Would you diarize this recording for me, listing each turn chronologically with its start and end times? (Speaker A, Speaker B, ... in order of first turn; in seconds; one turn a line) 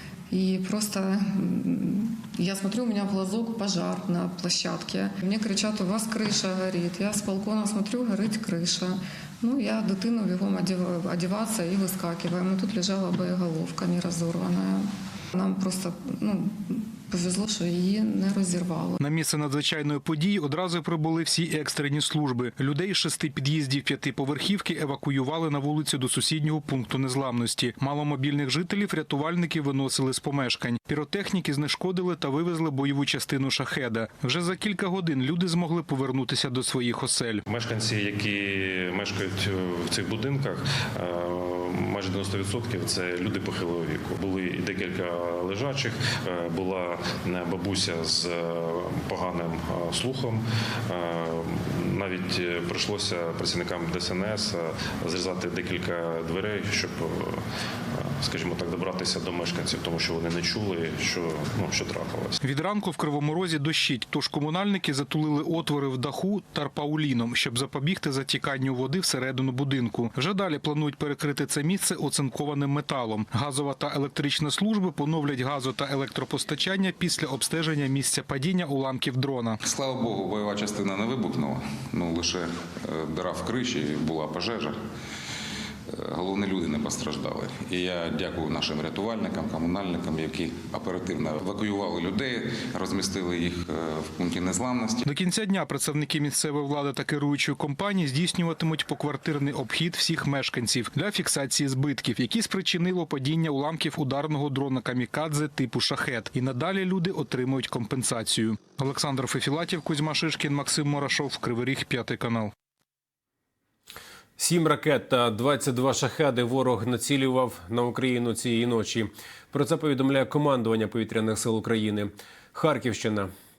Speaker A: 0.3-19.0
Speaker B: 19.0-37.4
Speaker C: 37.5-62.4
Speaker B: 62.4-79.6
Speaker D: 79.6-84.8
Speaker D: 85.9-95.0
Speaker B: 95.0-112.5
Speaker E: 114.4-123.3